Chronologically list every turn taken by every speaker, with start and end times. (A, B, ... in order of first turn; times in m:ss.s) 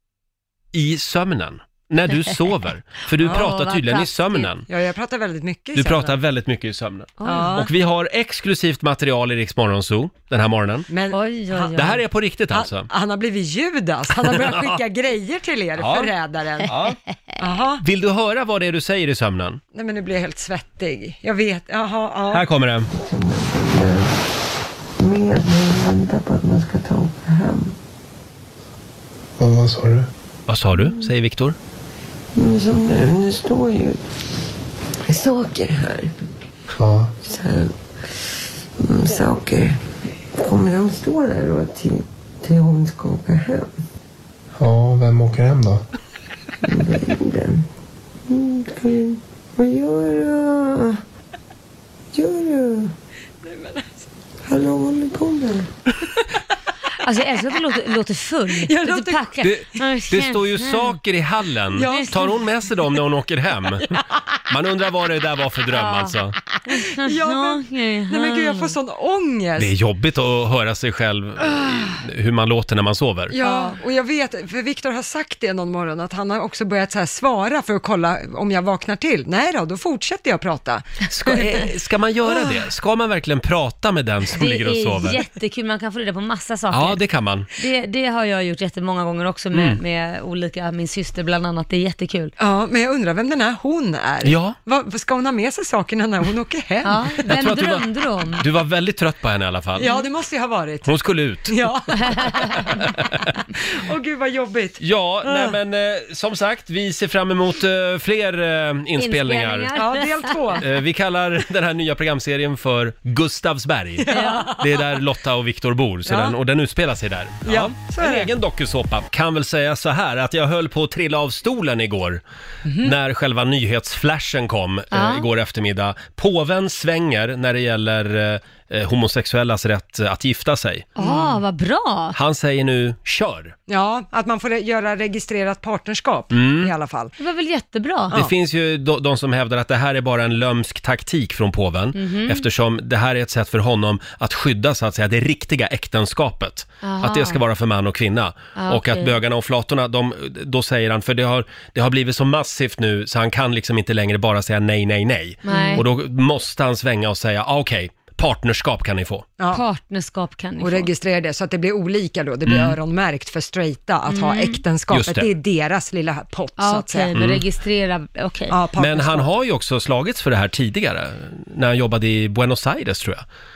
0:00.7-0:04.6 A
0:03.2-0:04.5 B
0:04.7-0:06.2 C
0:05.7-0:10.9 A
0:07.2-0:07.6 B
0:07.2-0:07.7 C
0:10.9-0:11.9 C
0:11.1-0:12.0 B
0:11.7-0:12.9 A
0:12.5-0:16.7 C
0:14.2-0:14.8 A
0:15.8-0:16.1 A
0:16.6-0:17.0 A
0:17.4-0:17.8 C
0:17.8-0:19.6 A
0:19.7-0:22.4 C
0:22.3-0:22.9 A
0:22.9-0:24.2 D
0:25.0-0:27.7 D
0:29.4-0:30.1 E
0:30.5-0:31.6 A
0:32.3-0:34.1 D
0:35.0-0:36.2 D
0:36.7-0:37.2 E
0:37.2-0:37.7 D
0:38.8-0:39.8 D
0:40.4-0:43.8 D
0:44.6-0:45.8 E
0:46.6-0:47.6 D
0:48.3-0:51.0 D
0:52.1-0:52.9 D
0:53.5-0:54.0 C
0:54.4-0:55.7 D
0:57.0-1:01.0 B
0:58.6-0:59.3 C
0:59.4-1:04.0 A
1:01.7-1:02.3 C
1:01.8-1:02.1 B
1:04.5-1:06.4 A
1:05.8-1:06.1 B
1:06.7-1:08.7 B
1:06.9-1:09.7 C
1:09.6-1:13.4 A
1:13.3-1:21.7 C
1:13.4-1:13.7 B
1:21.1-1:25.2 A
1:22.2-1:22.6 C
1:24.3-1:27.0 B
1:26.7-1:27.5 A
1:27.5-1:32.3 B
1:29.5-1:29.8 A
1:32.4-1:37.2 C
1:34.2-1:34.6 A
1:36.8-1:38.4 B
1:37.2-1:39.9 A
1:39.8-1:40.9 C
1:40.8-1:41.6 A
1:41.4-1:42.8 C
1:42.6-1:43.3 A
1:43.6-1:45.5 C
1:44.8-1:49.7 A
1:49.0-1:50.6 B
1:49.7-1:50.6 C
1:50.6-2:02.2 A
1:54.0-1:54.7 C
1:54.1-1:54.5 B
1:56.1-1:56.3 C
1:57.4-1:58.3 C
2:02.6-2:02.9 C
2:02.8-2:10.9 A
2:04.9-2:05.2 B
2:11.0-2:11.4 C
2:11.0-2:12.2 B
2:12.1-2:13.5 A
2:13.7-2:17.1 C
2:16.3-2:16.7 A
2:17.2-2:18.2 B
2:18.1-2:39.3 A
2:21.9-2:22.4 B
2:26.8-2:27.4 B
2:28.6-2:29.2 B
2:35.4-2:35.8 B
2:35.4-2:35.8 C
2:39.5-2:40.9 B
2:40.6-2:47.1 C
2:42.4-2:42.7 A
2:44.1-2:44.6 B
2:44.9-2:45.3 A
2:46.6-2:48.6 B
2:47.1-2:47.4 A
2:48.5-2:49.3 C
2:48.8-2:53.2 A